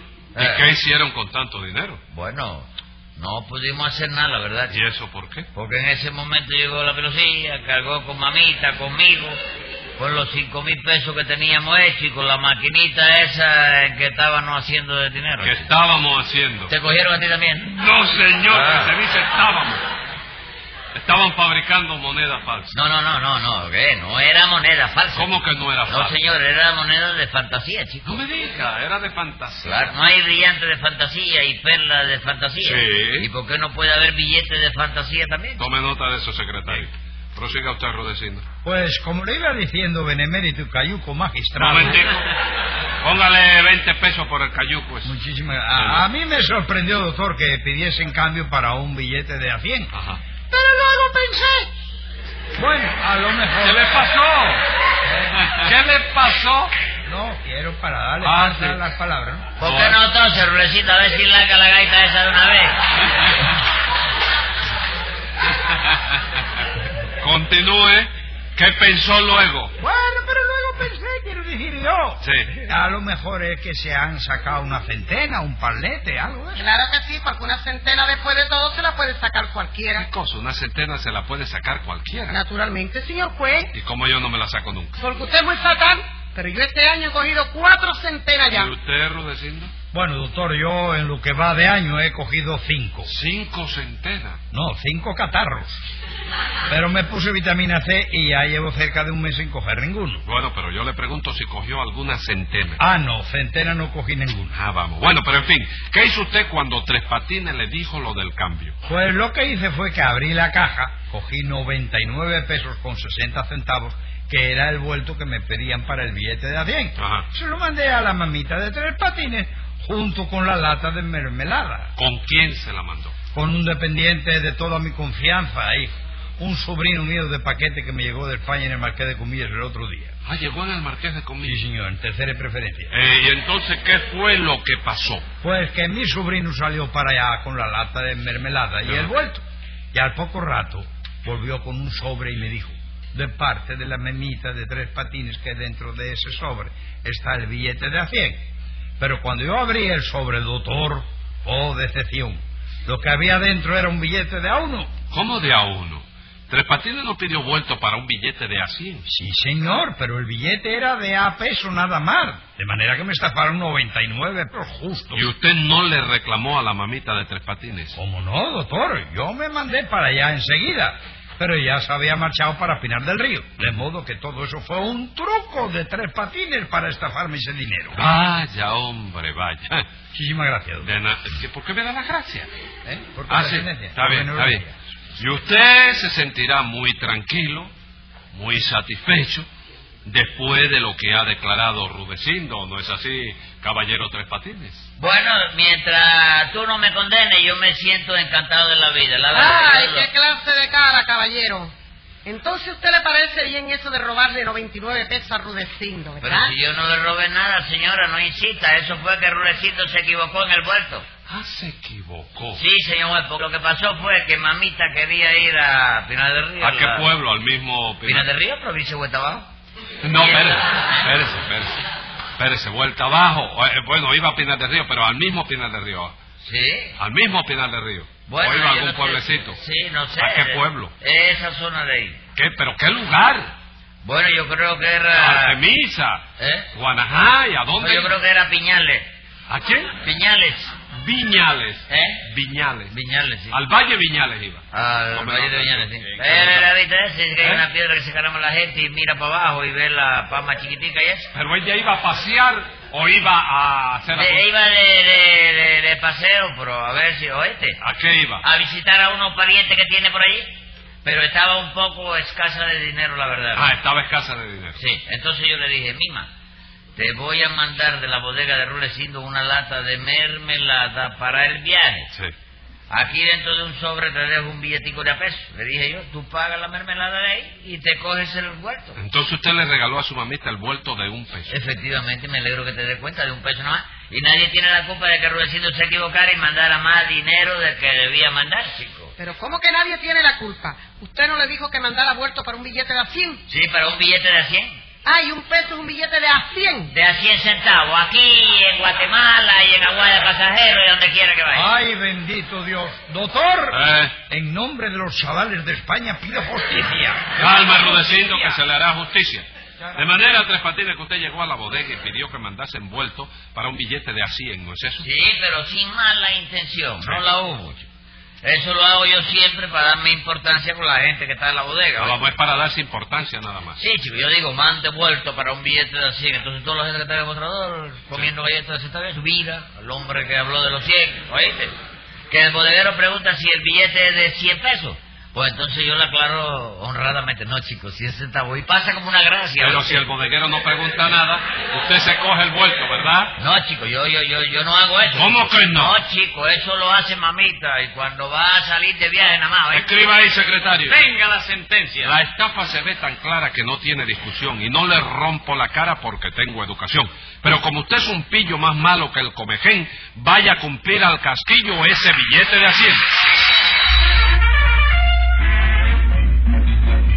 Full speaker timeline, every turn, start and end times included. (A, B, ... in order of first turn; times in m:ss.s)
0:00.3-0:00.7 A
0:00.4-0:02.0 B
0:02.1-0:04.8 A
0:04.7-0:05.5 B
0:05.5-0:09.4 A
0:10.0-0:15.7 A
0:15.4-0:16.7 B
0:16.7-0:17.7 A
0:17.6-0:19.8 B
0:18.5-0:18.9 A
0:20.9-0:22.7 B
0:22.7-0:25.3 A
0:25.1-0:26.2 B
0:25.9-0:28.2 A
0:28.0-0:29.9 B
0:29.6-0:35.6 A
0:32.6-0:33.3 B
0:35.6-0:38.4 B
0:38.6-0:42.0 C
0:41.6-0:42.3 B
0:43.0-0:45.1 B
0:45.0-0:49.9 C
0:45.7-0:46.0 B
0:49.9-0:50.2 B
0:50.5-0:51.7 C
0:52.5-0:54.0 C
0:53.6-0:54.6 B
0:55.0-0:55.5 C
0:55.4-0:56.7 B
0:57.0-0:59.5 C
0:58.2-0:58.8 B
0:59.6-1:02.8 A
0:59.6-1:00.0 B
1:07.2-1:09.7 B
1:09.8-1:16.6 C
1:12.2-1:12.6 B
1:16.6-1:20.1 D
1:19.9-1:22.4 B
1:22.3-1:23.7 D
1:23.7-1:24.9 B
1:25.0-1:28.7 D
1:28.4-1:29.7 B
1:29.9-1:33.1 C
1:33.0-1:34.4 B
1:34.5-1:35.8 C
1:36.7-1:40.2 C
1:40.2-1:42.8 B
1:42.8-1:44.5 C
1:44.5-1:48.8 B
1:48.8-2:01.9 C
1:57.0-1:57.3 B
2:02.0-2:03.2 B
2:03.3-2:10.1 C
2:10.2-2:11.6 B
2:11.4-2:12.9 C
2:12.9-2:15.2 B
2:15.4-2:28.4 C
2:18.8-2:19.1 B
2:29.0-2:34.9 C
2:35.1-2:39.1 B
2:39.1-2:45.3 C
2:45.1-2:48.0 B
2:47.9-2:58.0 C
2:57.9-2:59.8 B
3:00.1-3:00.9 C
3:00.8-3:02.5 B
3:02.8-3:04.8 C
3:03.3-3:04.6 B
3:05.2-3:07.7 B
3:08.3-3:09.5 B
3:10.0-3:14.9 B
3:15.0-3:20.1 A
3:19.3-3:21.7 D
3:22.2-3:26.6 D
3:26.2-3:31.0 A
3:31.3-3:32.6 B
3:32.5-3:37.1 A
3:36.6-3:38.3 B
3:38.0-3:39.5 A
3:40.0-3:41.8 B
3:40.1-3:40.7 A
3:42.4-3:46.1 B
3:46.4-3:47.0 A
3:47.0-3:49.6 B
3:48.3-3:52.2 A
3:50.2-3:50.9 B
3:52.3-3:53.5 B
3:54.0-3:55.6 A
3:55.1-3:58.1 B
3:56.4-3:56.7 A
3:57.8-3:59.1 A
3:59.5-4:00.0 B
4:00.0-4:00.7 A
4:00.9-4:02.9 B
4:01.9-4:02.2 A
4:02.9-4:03.6 A
4:03.5-4:06.6 B
4:04.7-4:11.3 A
4:06.0-4:06.6 E
4:07.4-4:07.6 B
4:11.3-4:14.5 B
4:14.1-4:17.8 A
4:17.8-4:18.4 B
4:18.4-4:23.7 A
4:23.5-4:24.8 B
4:24.8-4:26.3 A
4:27.0-4:32.1 A
4:32.9-4:39.0 A
4:39.0-4:41.6 B
4:41.5-4:49.1 A
4:49.2-4:53.4 D
4:53.5-4:54.8 A
4:55.0-4:56.9 D
4:56.9-5:01.7 A
5:01.5-5:08.4 C
5:03.7-5:04.1 B
5:07.4-5:15.1 B
5:15.0-5:17.8 A
5:18.4-5:22.2 A
5:22.0-5:23.8 B
5:23.8-5:31.7 A
5:32.3-5:40.0 A
5:39.6-5:43.3 B
5:43.4-5:49.9 A
5:45.1-5:46.0 B
5:49.7-5:51.0 B
5:50.8-5:52.2 E
5:52.0-6:03.0 B